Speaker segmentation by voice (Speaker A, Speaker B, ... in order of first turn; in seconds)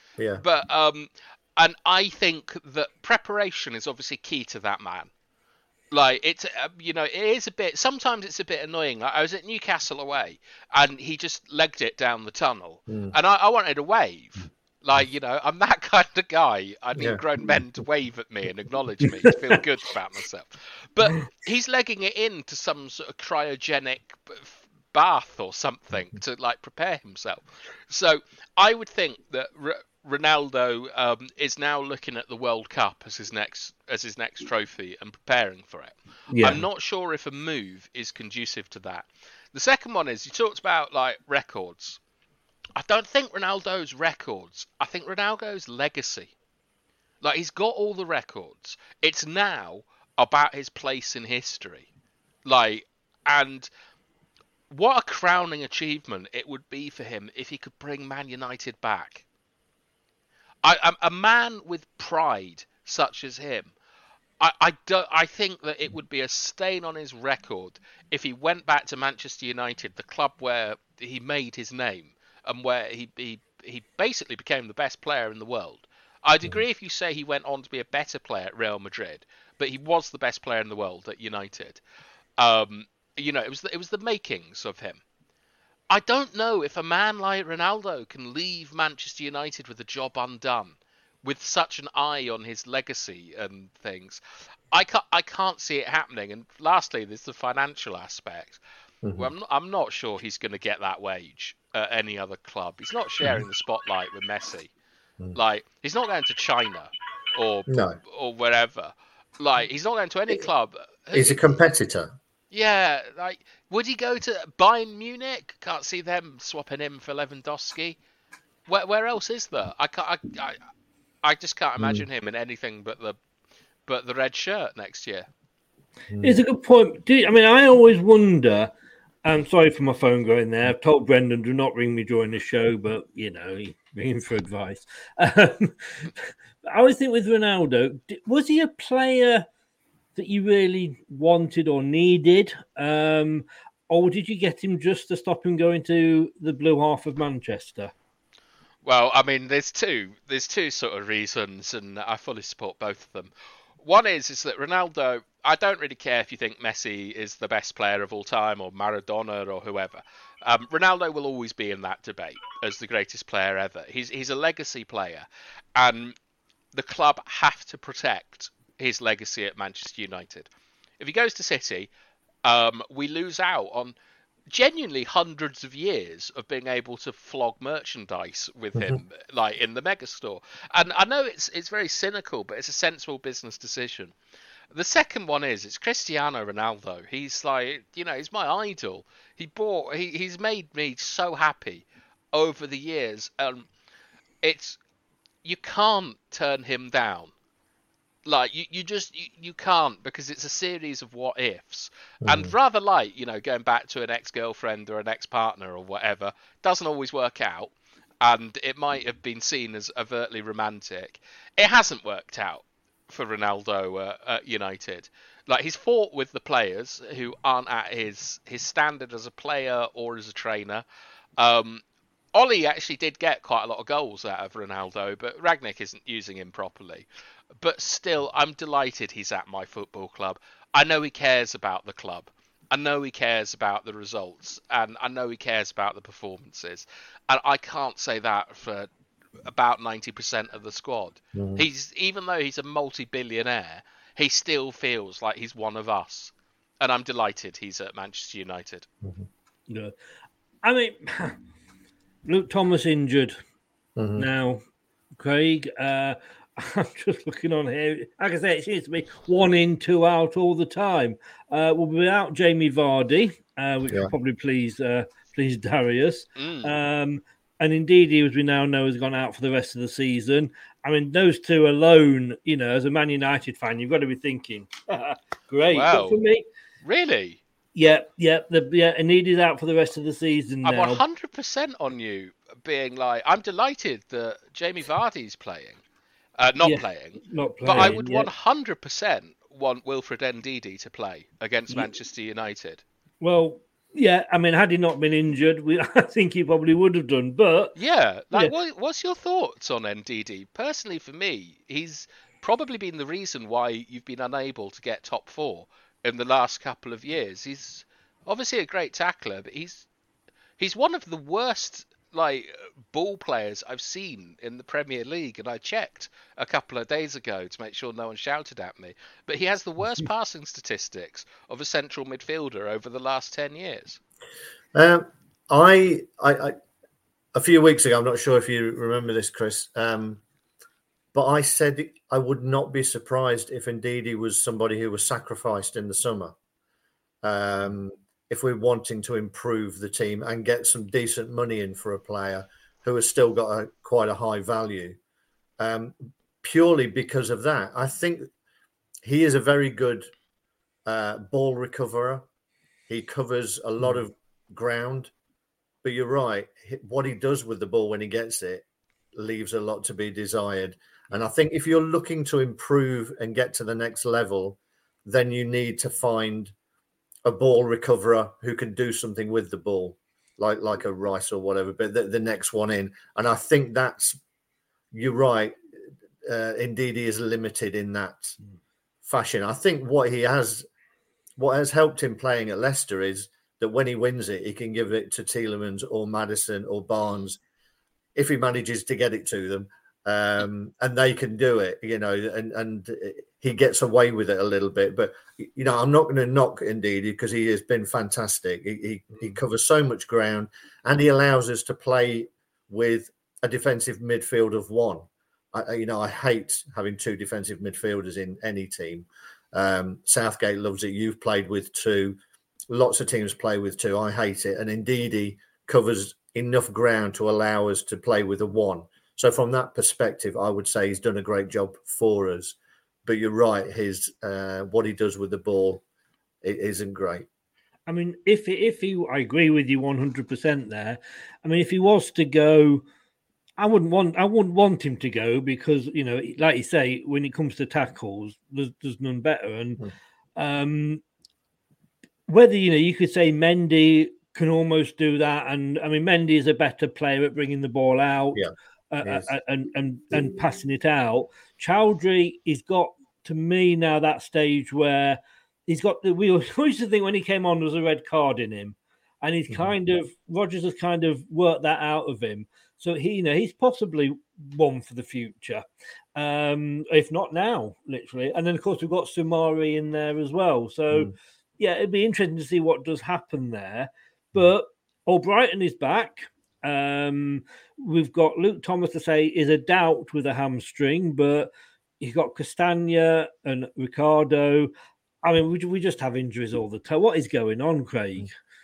Speaker A: 0.2-0.4, 12.9-13.2, 17.0-17.2, 99.0-99.3, 107.7-108.0, 111.1-112.2, 121.8-122.0, 126.1-126.4, 202.2-202.5, 241.4-241.6, 254.0-254.3, 324.7-326.6, 327.3-330.2, 331.1-336.4, 337.2-345.0, 345.6-348.3, 349.0-350.1, 350.9-352.3, 352.9-355.1, 355.8-366.5, 367.2-374.2, 374.9-375.6, 376.2-378.4, 379.0-380.7, 381.4-387.4, 388.2-412.2, 412.7-425.8, 426.4-427.3
Speaker B: 0.4-5.1, 5.9-42.0, 42.8-46.3, 47.2-51.9, 52.5-53.7, 54.7-59.2, 60.6-63.7, 64.4-81.8, 82.4-85.0, 85.9-94.2, 94.7-98.6, 99.2-104.7, 105.3-111.4, 112.5-118.0, 118.7-120.6, 121.2-123.2, 123.9-125.3, 148.8-166.2, 166.7-170.5, 171.0-171.9, 172.4-173.9, 174.5-184.1, 184.7-193.7, 194.4-194.8, 195.4-197.3, 198.3-220.8, 221.4-221.8, 222.3-227.1, 227.6-238.9, 239.5-248.9, 266.4-266.7, 275.7-276.2, 276.8-277.4, 280.6-285.8, 286.4-292.8, 297.8-309.9, 310.6-324.0
Speaker C: 36.3-36.6, 126.2-128.7, 129.2-136.1, 136.7-139.5, 140.2-147.9, 249.7-249.9, 250.6-251.4, 252.3-253.4, 254.2-254.6, 255.2-276.4, 277.8-281.0, 286.6-288.3, 293.2-297.8, 427.9-432.8, 433.6-439.8, 440.4-441.0, 442.3-465.6, 466.2-484.7, 485.2-488.3